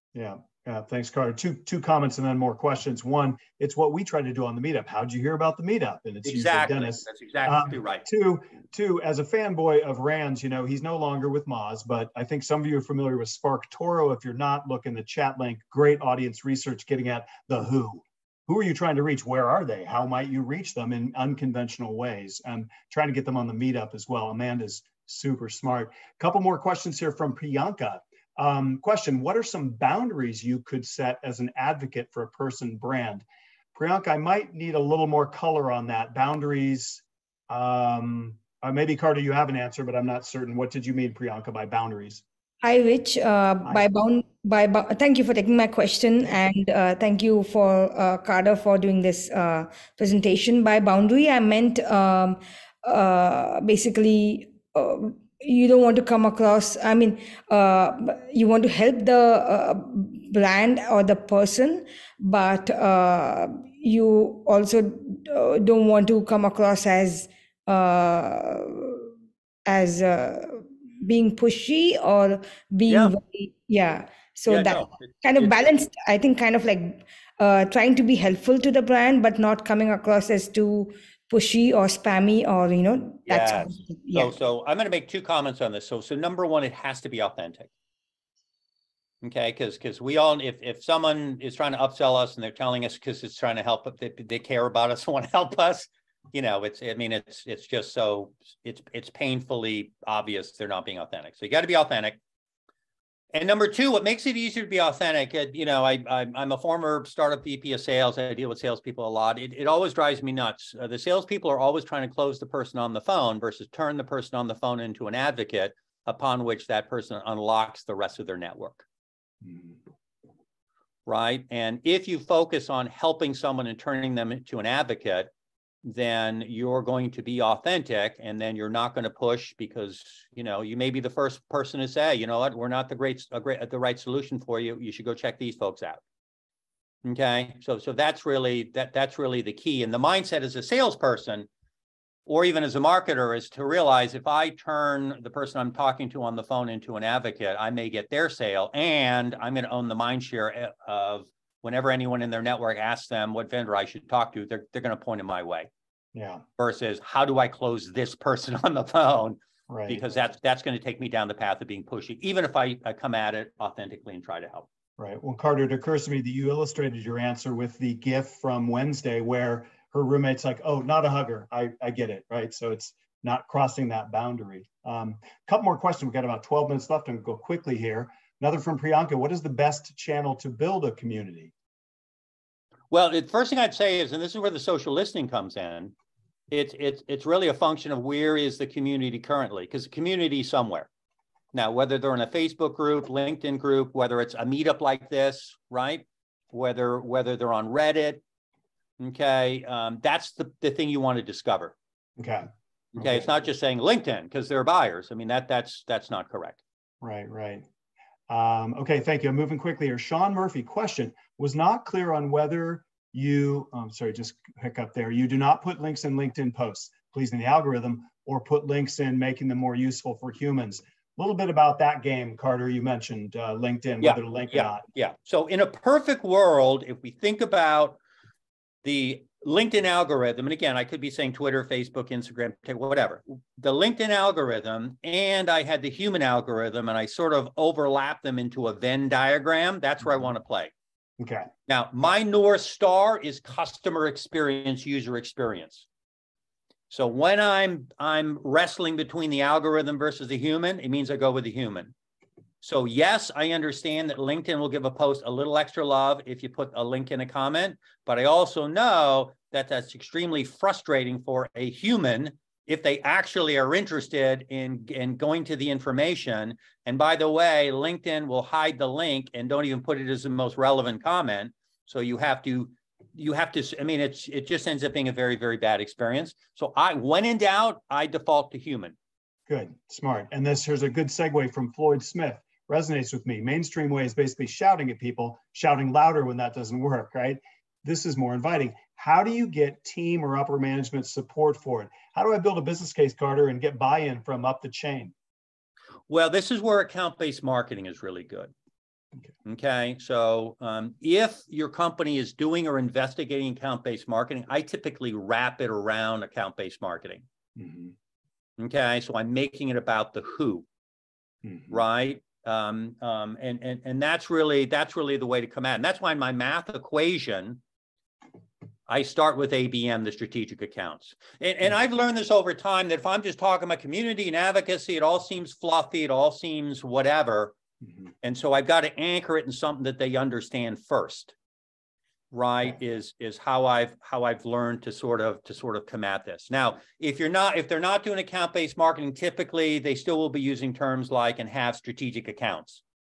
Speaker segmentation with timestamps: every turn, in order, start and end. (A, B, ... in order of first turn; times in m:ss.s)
0:00.1-0:42.2 A
0:06.2-0:08.1 B
0:42.6-1:09.1 C
1:09.7-1:24.3 C
1:12.9-1:13.1 B
1:14.5-1:15.7 B
1:23.3-1:27.7 B
1:29.2-1:42.2 B
1:43.3-1:58.8 B
1:59.4-1:59.8 A
2:01.1-2:05.3 B
2:05.8-2:16.0 B
2:17.0-2:21.5 B
2:22.3-2:35.7 B
2:36.1-2:36.4 A
2:36.6-2:44.7 B
2:39.7-2:40.0 A
2:45.0-3:01.5 A
3:02.9-3:06.0 B
3:06.5-3:10.9 B
3:11.5-3:18.2 B
3:19.0-3:21.7 B
3:22.2-3:23.3 A
3:23.0-3:26.6 B
3:27.0-3:27.7 A
3:28.3-3:44.8 A
3:44.0-3:48.0 B
3:48.8-4:00.7 B
4:01.2-4:01.5 A
4:01.7-4:05.9 B
4:06.9-4:11.9 B
4:12.6-4:39.0 B
4:39.5-4:55.1 A
4:56.1-4:58.5 B
4:59.4-5:07.2 B
5:07.6-5:07.9 A
5:08.6-5:10.7 B
5:11.4-5:11.7 A
5:11.7-5:17.6 B
5:18.9-5:27.6 B
5:28.2-5:31.4 B
5:32.3-5:42.8 B